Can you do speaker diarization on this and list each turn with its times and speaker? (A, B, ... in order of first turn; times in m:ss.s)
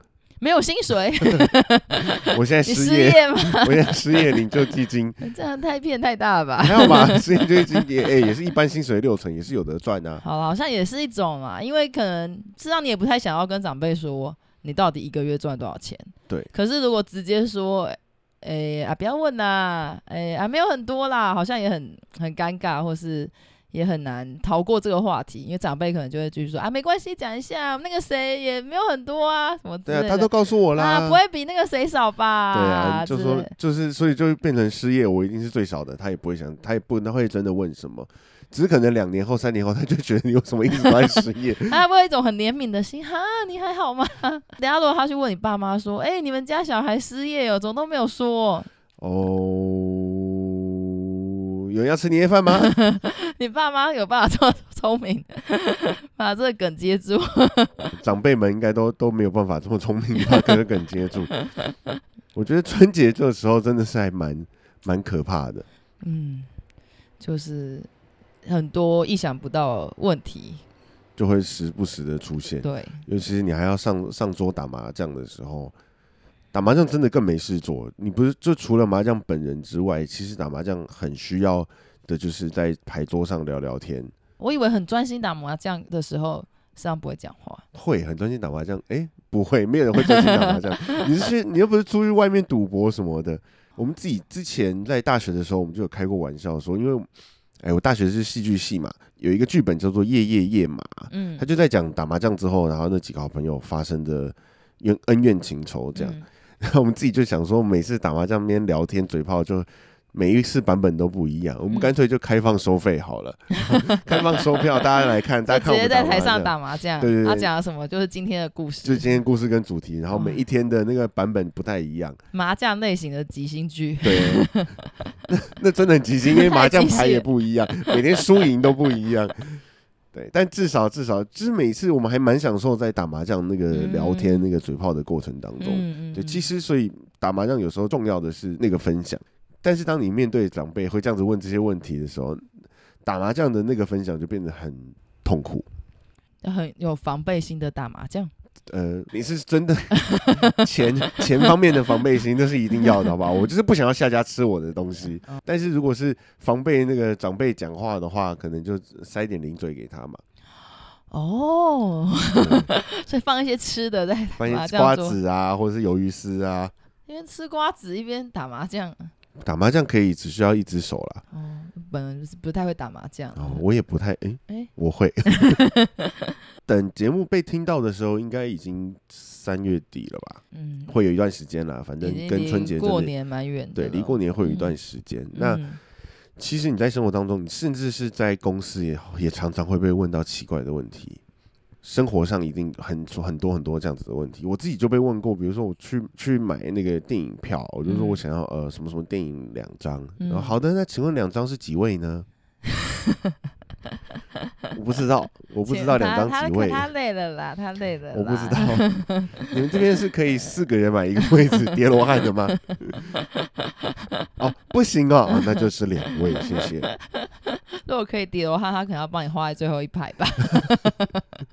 0:00.4-0:04.2 A
0:01.2-0:01.5 B
0:02.0-0:05.2 B
0:05.2-0:07.8 A
0:06.6-0:10.2 B
0:10.2-0:33.5 A
0:29.8-0:31.2 B
0:32.5-0:41.8 B
0:41.6-0:48.7 A
0:49.0-0:51.2 B
0:51.7-0:52.7 B
0:52.5-0:57.9 A
0:57.9-1:01.3 B
1:00.2-1:00.6 A
1:01.3-1:01.9 A
1:02.3-1:05.6 B
1:06.0-1:06.5 A
1:07.2-1:07.9 A
1:08.4-1:10.6 A
1:11.2-1:15.7 B
1:12.6-1:13.0 A
1:16.5-1:24.1 B
1:24.4-1:27.6 A
1:27.7-1:37.1 B
1:30.0-1:31.0 A
1:37.6-1:57.5 B
1:41.1-1:41.4 A
1:46.0-1:46.2 A
1:55.5-1:59.2 A
1:58.8-2:02.2 B
2:00.1-2:00.4 A
2:02.3-2:04.8 A
2:04.0-2:04.5 B
2:05.3-2:22.4 B
2:06.3-2:07.3 A
2:13.7-2:14.5 A
2:15.6-2:16.5 A
2:23.0-2:25.6 B
2:26.4-2:28.3 A
2:28.7-2:40.2 B
2:30.1-2:30.5 A
2:41.1-2:45.2 A
2:42.4-2:42.7 B
2:44.4-2:46.7 B
2:47.1-2:49.1 A
2:49.4-2:51.2 B
2:51.3-2:53.6 A
2:53.4-2:55.6 B
2:55.3-2:56.4 A
2:56.6-3:03.1 B
3:00.5-3:00.9 A
3:02.0-3:04.8 A
3:03.7-3:05.6 B
3:05.3-3:05.8 A
3:06.4-3:11.2 B
3:11.8-3:22.3 B
3:17.8-3:18.2 A
3:20.2-3:20.6 A
3:22.7-3:23.4 A
3:24.7-3:26.9 B
3:25.6-3:29.5 A
3:28.1-3:29.0 B
3:29.5-3:33.1 B
3:32.5-3:34.1 A
3:34.4-3:36.9 B
3:36.4-3:41.2 A